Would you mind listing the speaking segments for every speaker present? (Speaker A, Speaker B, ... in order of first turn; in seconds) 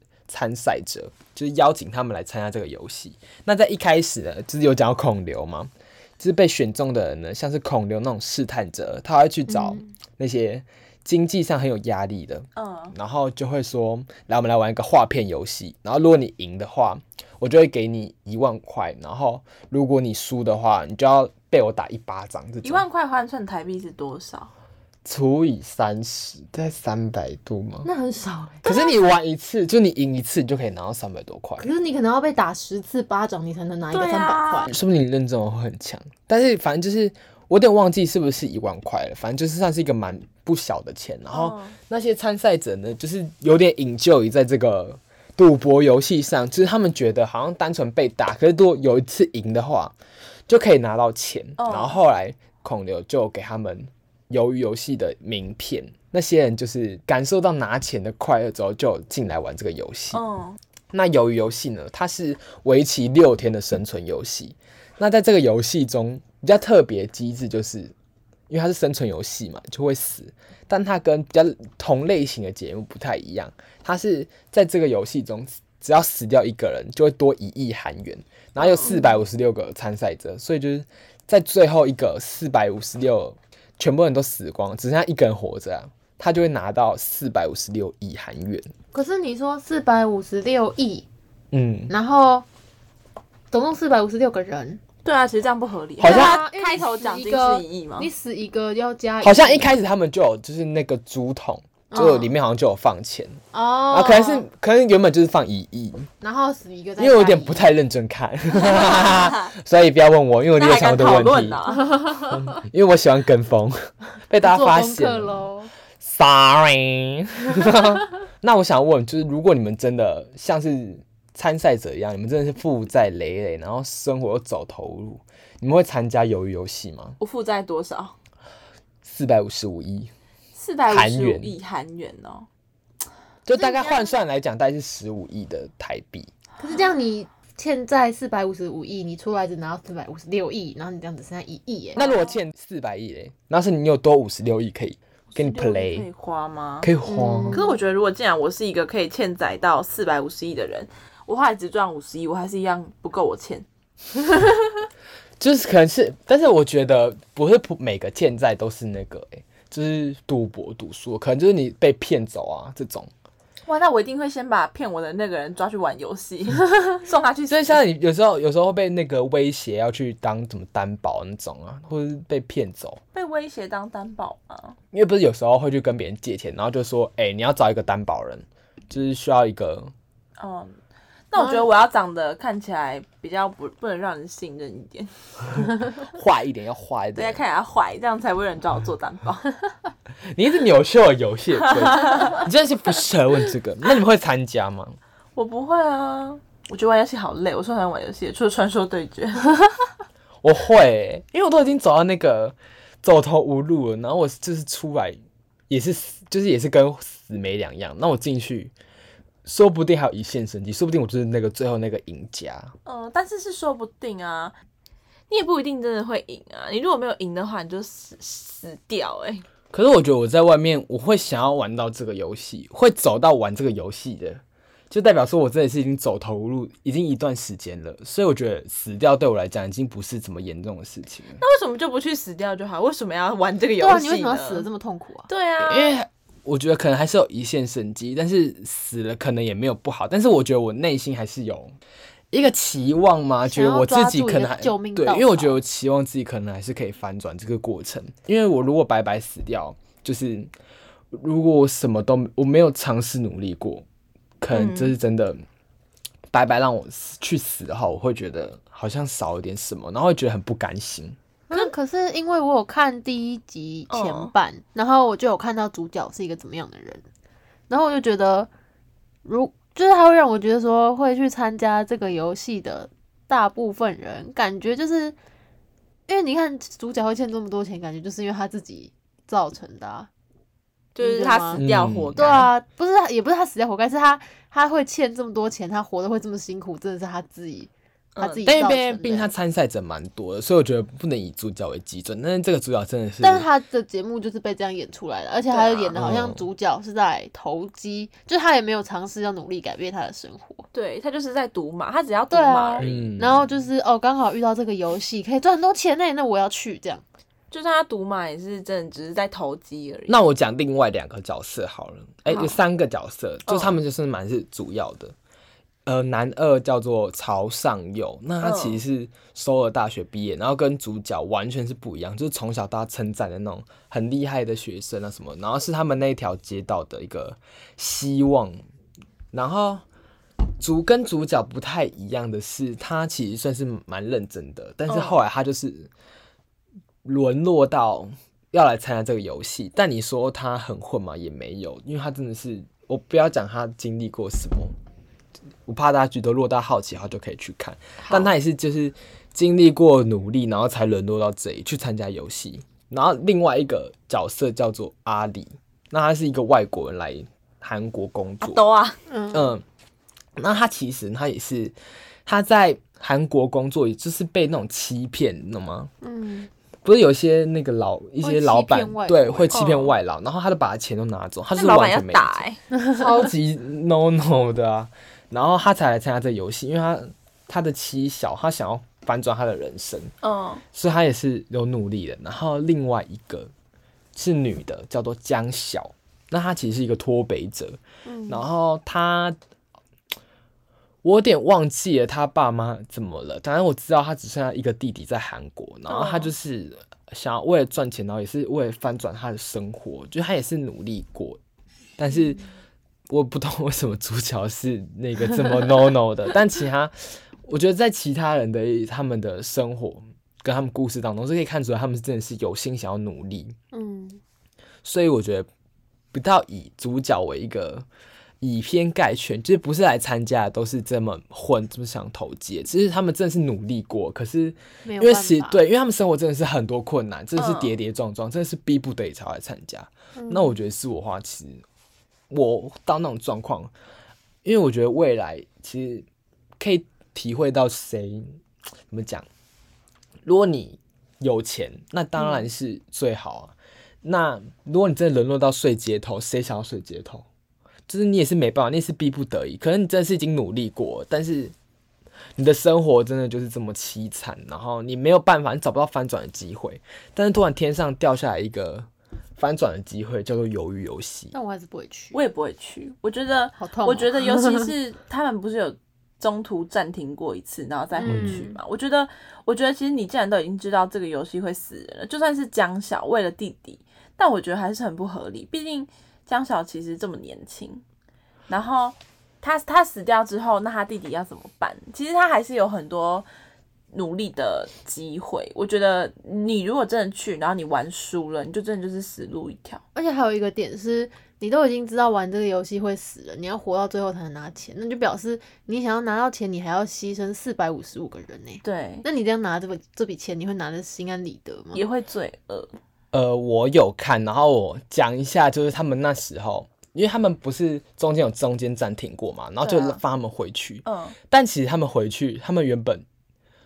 Speaker A: 0.3-22.8, 25.0-27.9, 28.6-31.7, 34.7-49.9, 50.5-60.2, 60.9-67.9, 68.5-88.7, 91.5-91.9, 96.0-96.4, 99.2-106.1, 107.0-115.4, 116.0-127.2, 129.0-130.1, 130.9-131.5, 133.4-136.3, 141.9-146.1, 146.8-147.6, 155.4-163.1, 167.5-173.0, 174.9-179.9, 186.0-187.4, 190.3-195.0, 200.4-205.2, 205.7-208.7, 209.4-212.7, 219.7-231.4, 235.6-241.7, 242.3-250.5, 251.1-253.8, 254.4-255.4, 256.3-261.2, 281.6-282.5, 288.4-293.5, 295.9-296.4, 302.8-303.4, 310.1-315.1, 315.9-328.6, 329.3-329.8, 330.6-335.9, 337.0-344.7, 345.6-358.6, 359.3-359.6, 360.4-361.7, 362.2-365.9, 366.8-380.1, 380.7-383.5, 384.1-389.4, 391.0-401.4, 402.0-402.4, 403.1-413.6, 414.8-415.5, 416.1-417.9, 418.4-431.6, 432.3-433.7, 434.4-436.1, 436.6-438.4, 438.9-439.2, 440.2-447.2, 447.9-451.5, 452.4-461.3, 468.0-468.4, 503.1-513.0
Speaker B: 9.5-9.9, 27.8-28.8, 31.6-34.7, 88.9-91.0, 91.9-92.4, 93.5-94.8, 96.0-99.7, 101.9-102.3, 103.5-104.5, 106.2-107.6, 111.9-112.3, 114.4-115.7, 133.6-134.0, 136.6-142.0, 147.0-147.8, 233.8-235.3, 243.4-245.6, 261.5-267.0, 267.7-268.5, 269.2-275.1, 276.1-280.1, 281.0-281.6, 282.1-289.3, 293.2-300.6, 302.3-307.0, 359.1-359.5, 366.0-366.5, 368.2-369.6, 388.1-388.5, 413.7-414.2, 424.8-425.6, 430.1-430.5, 461.3-462.2, 463.6-464.7, 468.0-468.5, 489.9-501.8
Speaker C: 12.6-12.9, 22.6-24.5, 33.9-34.7, 41.3-41.8, 51.6-52.0, 60.1-60.6, 78.6-79.0, 95.0-98.1, 108.8-109.3, 110.6-112.0, 127.2-128.1, 130.5-132.5, 141.9-142.4, 145.3-146.9, 147.5-153.7, 163.7-167.8, 173.1-174.8, 180.4-180.7, 181.3-185.1, 187.2-189.5, 191.7-192.4, 195.3-199.5, 212.8-214.5, 215.3-219.4, 231.4-234.7, 235.3-235.9, 254.5-254.9, 263.9-264.3, 280.9-282.5, 288.1-288.4, 295.5-296.0, 300.7-303.1, 307.5-310.1, 313.5-313.8, 318.4-318.8, 334.9-335.2, 348.0-348.3, 358.4-359.0, 369.5-369.9, 371.5-372.6, 380.2-380.6, 395.9-396.3, 427.4-427.7, 462.1-477.8, 478.5-483.3, 483.9-489.8, 498.6-499.0, 501.7-502.7, 509.6-510.0, 510.9-511.1